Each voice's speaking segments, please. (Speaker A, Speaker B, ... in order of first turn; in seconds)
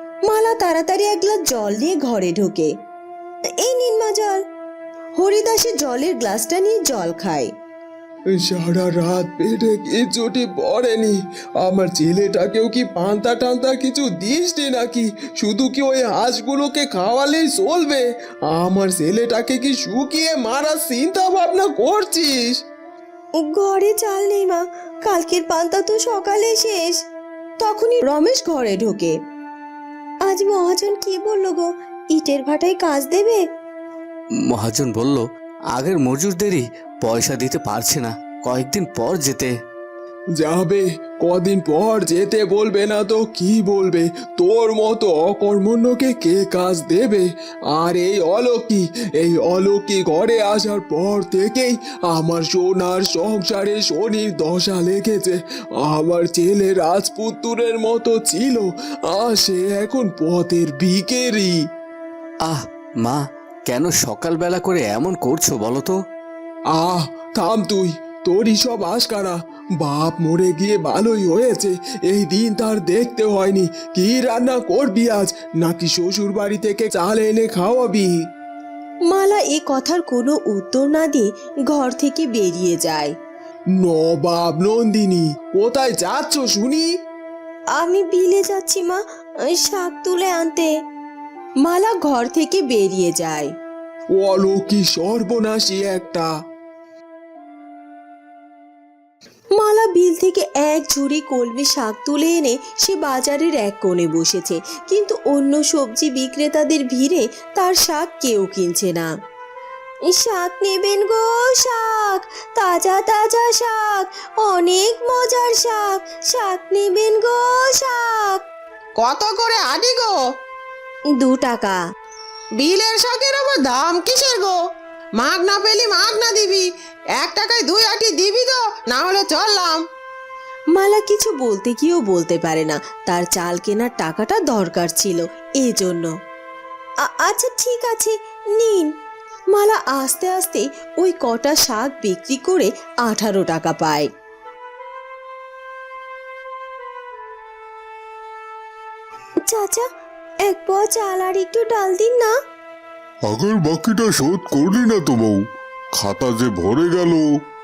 Speaker A: 0.3-2.7, 3.6-4.4, 5.2-7.5, 23.6-27.0, 27.6-29.1, 30.3-33.4, 79.1-83.1, 87.8-89.0, 89.7-90.7, 91.6-93.5, 99.6-109.1, 110.2-118.4, 121.2-121.8, 130.8-136.1, 137.1-138.9, 139.5-144.1, 149.5-149.8, 150.5-152.3
Speaker B: 8.3-22.6, 40.4-61.6, 66.7-78.1, 83.8-86.9, 94.1-96.3
Speaker C: 34.5-39.5, 62.5-66.0
Speaker D: 119.0-120.2, 122.5-124.6, 125.2-129.8
Speaker E: 153.3-155.4, 156.0-157.3